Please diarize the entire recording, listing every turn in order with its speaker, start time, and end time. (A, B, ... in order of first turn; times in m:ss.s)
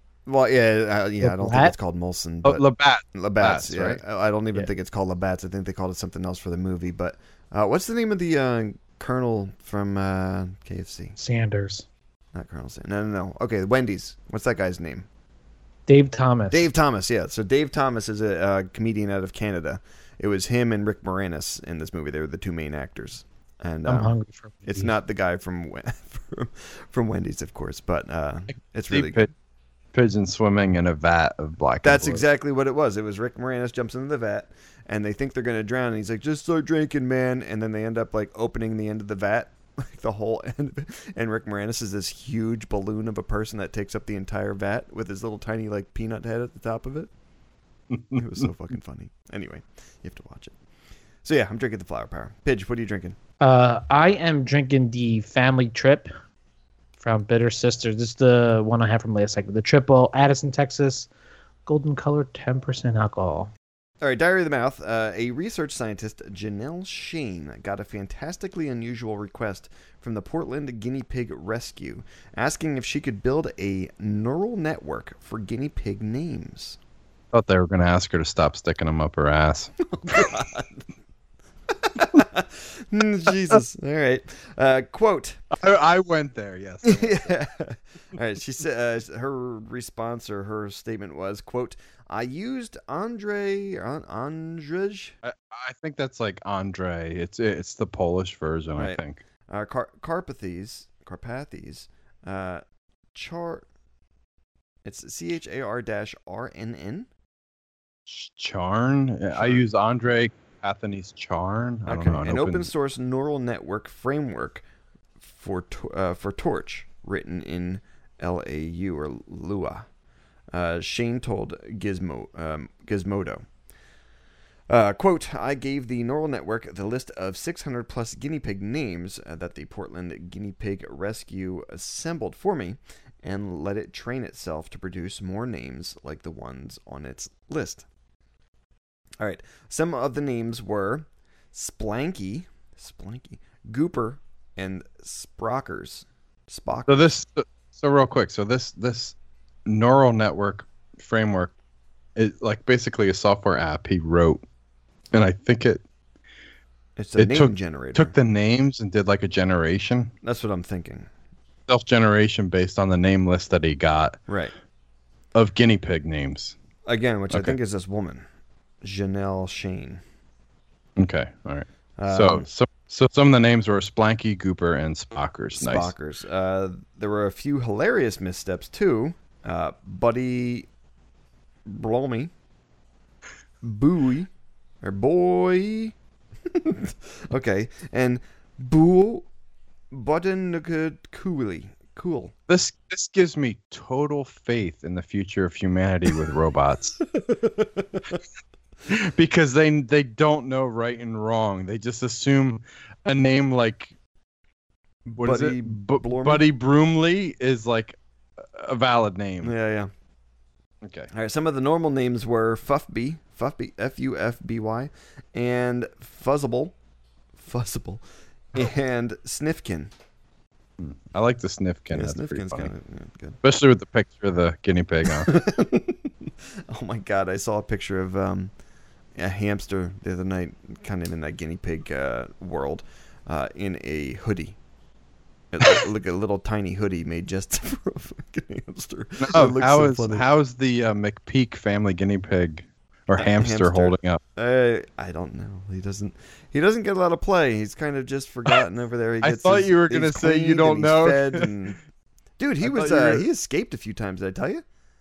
0:00.2-0:11.2 A
0:01.2-0:01.7 B
0:02.4-0:04.0 C
0:11.2-0:11.8 B
0:12.3-0:15.1 A
0:15.9-0:16.7 B
0:16.5-0:24.1 A
0:23.8-0:24.9 B
0:24.7-0:29.3 A
0:28.9-0:29.3 C
0:29.9-0:32.2 C
0:31.8-0:47.1 A
0:48.1-0:50.6 A
0:51.2-0:53.2 A
0:53.4-0:56.1 B
0:57.0-1:01.1 B
1:01.6-1:03.5 B
1:04.0-1:16.8 A
1:17.3-1:19.7 C
1:19.9-1:20.8 A
1:21.7-1:25.4 A
1:25.5-1:27.3 C
1:26.8-1:35.2 A
1:35.2-1:39.2 C
1:38.8-1:42.6 A
1:43.1-1:43.6 A
1:44.8-1:47.1 A
1:48.1-1:52.7 C
1:49.3-1:49.6 A
1:51.9-1:54.6 A
1:55.2-1:59.9 A
2:00.5-2:03.4 A
2:04.7-2:17.8 A
2:19.2-2:27.0 A
2:26.9-2:29.1 C
2:29.6-2:31.5 C
2:32.2-2:34.4 C
2:35.1-2:35.8 C
2:37.0-2:38.1 A
2:37.2-2:40.1 C
2:40.2-2:41.1 A
2:41.7-2:44.2 C
2:44.3-2:44.5 A
2:45.3-2:46.5 C
2:46.8-2:48.2 A
2:47.3-2:47.6 C
2:48.8-2:50.0 A
2:51.0-2:55.9 C
2:52.0-2:52.5 A
2:55.6-3:00.7 A
3:01.6-3:02.3 A
3:03.6-3:04.3 A
3:04.8-3:09.3 A
3:09.9-3:12.3 A
3:12.5-3:17.0 C
3:17.1-3:18.2 A
3:18.9-3:23.9 C
3:25.1-3:26.4 A
3:25.1-3:29.5 C
3:29.4-3:29.9 A
3:30.8-3:31.1 C
3:31.1-3:36.7 A
3:37.4-3:39.9 A
3:40.8-3:42.7 C
3:41.9-3:43.4 A
3:43.4-3:45.3 C
3:45.1-3:48.5 A
3:49.2-3:54.6 A
3:55.5-4:00.2 A
3:59.2-4:04.2 C
4:03.2-4:11.8 A
4:09.2-4:11.5 C
4:12.4-4:14.6 A
4:12.6-4:13.2 C